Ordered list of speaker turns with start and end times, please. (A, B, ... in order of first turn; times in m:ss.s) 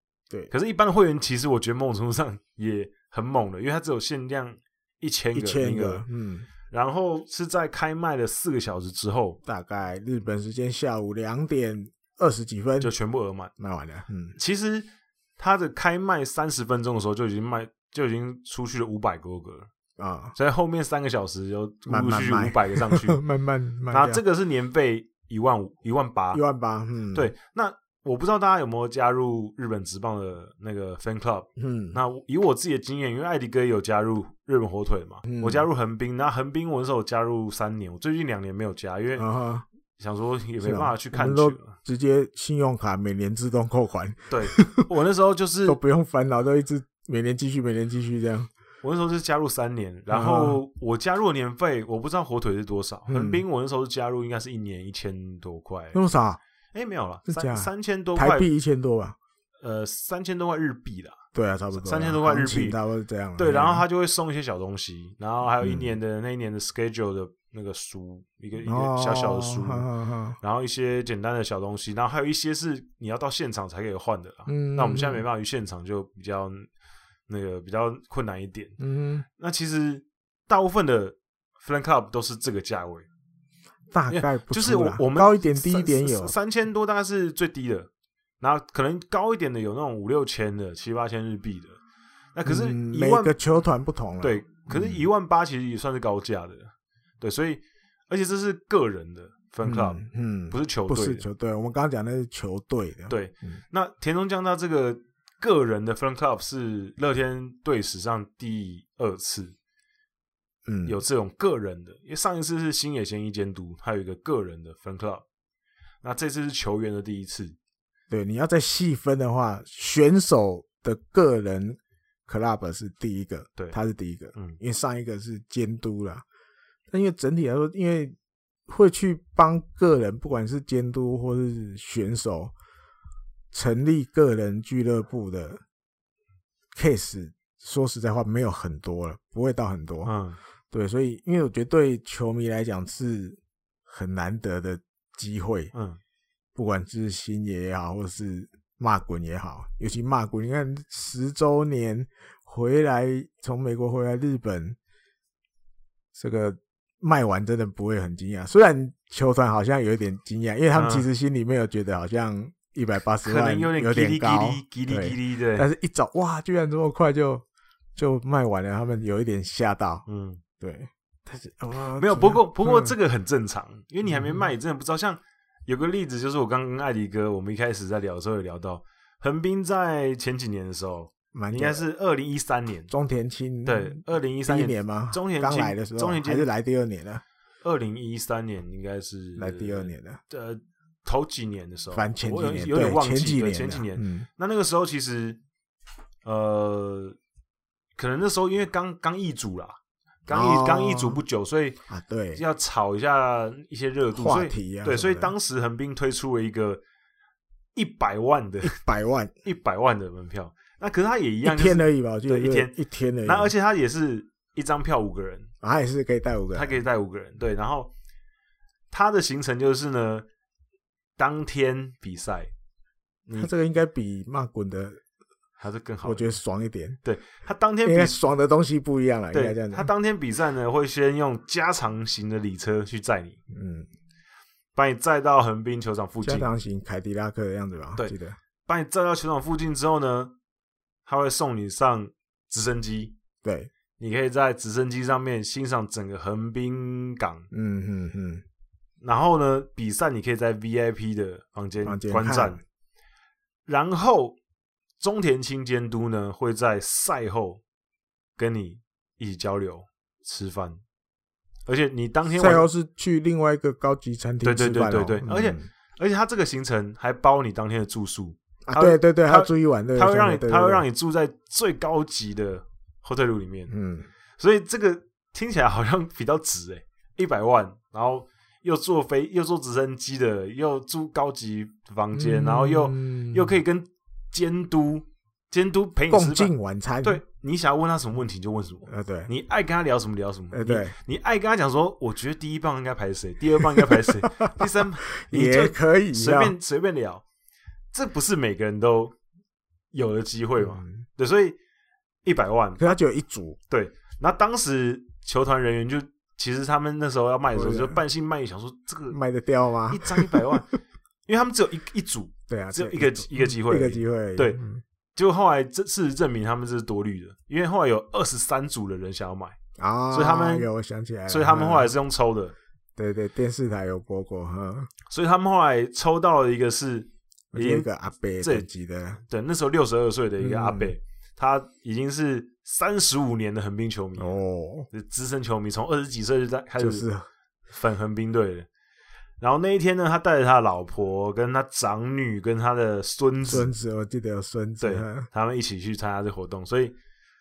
0:00.5-0:06.0 A
0:05.3-0:06.5 B
0:06.7-0:09.4 A
0:09.4-0:12.9 B
0:12.8-0:13.5 A
0:13.6-0:14.4 B
0:14.4-0:19.7 A
0:20.0-0:20.4 B
0:20.4-0:23.2 A
0:21.9-0:24.2 B
0:23.9-0:26.4 A
0:26.3-0:27.3 B
0:27.1-0:39.3 A
0:31.6-0:32.0 B
0:35.2-0:35.6 B
0:39.2-0:39.6 B
0:40.0-0:41.8 A
0:40.6-0:44.8 B
0:44.3-0:45.8 A
0:45.6-0:48.5 B
0:48.8-0:56.0 A
0:50.1-0:50.6 B
0:53.1-0:53.4 B
0:55.9-0:56.4 B
0:56.7-0:58.5 A
0:57.3-0:59.2 B
0:59.6-1:01.2 A
1:01.3-1:03.8 B
1:01.7-1:02.8 A
1:03.4-1:09.9 A
1:05.6-1:05.9 B
1:08.6-1:10.4 B
1:10.4-1:16.7 A
1:14.5-1:15.2 B
1:17.3-1:18.8 A
1:18.8-1:19.2 B
1:19.4-1:23.1 A
1:23.9-1:26.3 B
1:24.1-1:27.9 A
1:28.4-1:31.8 A
1:32.3-1:33.3 A
1:32.4-1:35.0 B
1:34.2-1:41.2 A
1:39.6-1:43.6 B
1:43.1-1:49.5 A
1:50.6-1:51.0 B
1:50.8-1:55.2 A
1:56.0-1:57.6 A
1:58.1-2:06.2 B
2:06.9-2:12.5 B
2:13.5-2:15.6 B
2:16.7-2:20.1 B
2:20.0-2:20.4 A
2:20.7-2:25.7 B
2:25.7-2:26.0 A
2:26.5-2:34.8 B
2:36.1-2:47.4 B
2:40.7-2:41.1 A
2:43.2-2:45.7 A
2:48.0-2:50.0 B
2:50.0-2:50.4 A
2:50.6-2:52.9 B
2:52.0-3:02.9 A
2:54.0-2:54.5 B
3:01.3-3:01.8 B
3:02.9-3:07.2 B
3:03.6-3:06.5 A
3:07.6-3:15.4 A
3:09.4-3:10.2 B
3:11.9-3:14.3 B
3:16.2-3:17.2 A
3:18.0-3:19.8 A
3:20.3-3:21.8 A
3:20.3-3:21.2 B
3:21.9-3:22.4 B
3:22.3-3:26.8 A
3:24.1-3:25.3 B
3:27.7-3:28.8 A
3:28.6-3:29.3 B
3:29.4-3:35.5 A
3:31.4-3:33.5 B
3:35.6-3:36.8 B
3:36.5-3:37.9 A
3:38.9-3:40.2 A
3:41.2-3:42.5 A
3:43.4-3:45.0 B
3:45.6-3:46.3 A
3:46.0-3:47.0 B
3:47.0-3:48.2 A
3:47.8-3:49.9 B
3:49.3-3:53.4 A
3:53.5-3:53.9 B
3:54.7-3:56.5 A
3:56.2-3:58.4 B
3:58.7-4:00.3 A
4:01.0-4:03.1 A
4:03.4-4:03.7 B
4:04.0-4:07.5 A
4:07.5-4:08.4 B
4:09.0-4:12.6 A
4:11.8-4:12.6 B
4:13.6-4:14.4 A
4:15.0-4:17.6 A
4:18.4-4:20.8 A
4:21.6-4:22.6 A
4:22.3-4:25.6 B
4:24.4-4:33.7 A
4:28.7-4:30.8 B
4:33.7-4:34.1 B
4:34.4-4:46.5 A
4:42.1-4:43.6 B
4:46.1-4:47.2 B
4:47.0-4:57.2 A
4:48.9-4:49.3 B
4:50.5-4:50.9 B
4:55.2-4:56.5 B
4:57.9-4:59.1 A
4:59.9-5:01.6 A
5:00.6-5:01.0 B
5:02.2-5:02.9 A
5:02.8-5:03.6 B
5:03.7-5:09.2 A
5:07.5-5:08.0 B
5:09.1-5:10.6 B
5:09.9-5:10.7 A
5:11.3-5:14.6 A
5:12.5-5:14.8 B
5:15.1-5:19.6 A
5:19.8-5:21.9 B
5:20.1-5:20.6 A
5:21.3-5:22.5 A
5:23.0-5:24.9 B
5:25.1-5:27.9 A
5:27.5-5:29.2 B
5:28.4-5:28.7 A
5:29.2-5:34.3 A
5:30.4-5:31.0 B
5:34.2-5:34.9 B
5:34.9-5:37.0 A
5:36.8-5:37.3 B
5:37.7-5:38.7 A
5:39.4-5:43.7 A
5:43.4-5:45.3 B
5:44.8-5:47.0 A